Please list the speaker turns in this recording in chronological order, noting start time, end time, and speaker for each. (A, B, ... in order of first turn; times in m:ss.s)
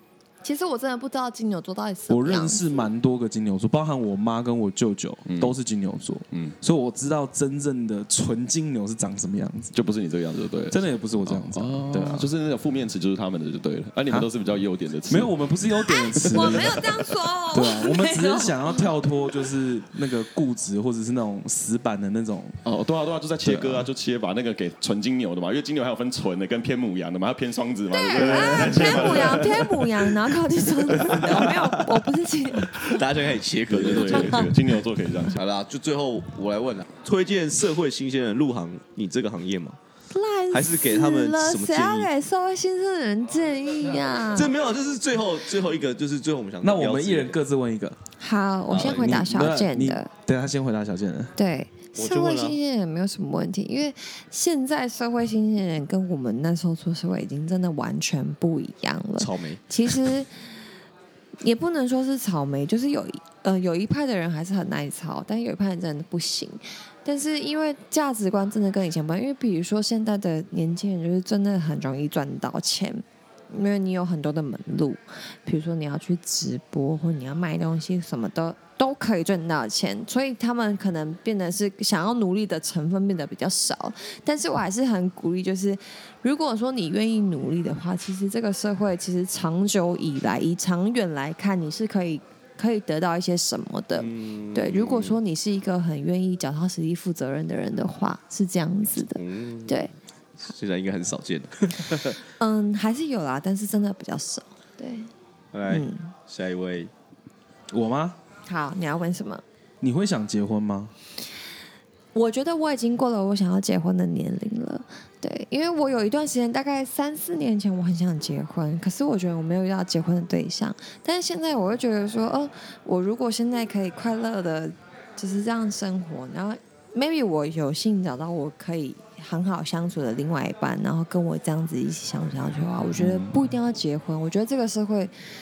0:00.4-0:02.7 A
0:02.1-0:09.7 B
0:05.3-0:05.6 C
0:09.7-0:15.4 C
0:10.7-0:12.3 B
0:15.1-0:22.6 B
0:15.9-0:18.9 A
0:16.4-0:16.7 C
0:22.6-0:29.9 C
0:23.4-0:23.9 B
0:27.9-0:33.0 A
0:28.2-0:29.4 B
0:31.1-0:31.9 D
0:32.8-0:34.5 D
0:33.7-0:35.4 C
0:34.1-0:34.5 A
0:35.3-0:39.8 D
0:40.1-0:44.6 A
0:40.5-0:42.1 D
0:44.3-0:47.4 D
0:46.6-0:48.0 B
0:48.2-0:50.1 A
0:48.7-0:49.3 D
0:48.8-0:51.3 B
0:51.4-1:00.3 A
0:52.0-0:52.6 D
0:59.2-0:59.6 D
1:01.4-1:39.9 A
1:34.0-1:35.2 D
1:39.1-1:39.8 D
1:40.4-1:42.2 D
1:42.4-1:45.1 A
1:45.5-1:46.9 D
1:45.7-1:46.1 A
1:47.7-1:48.2 B
1:48.5-1:49.4 A
1:49.8-1:50.9 B
1:52.1-2:15.2 A
2:13.0-2:13.4 B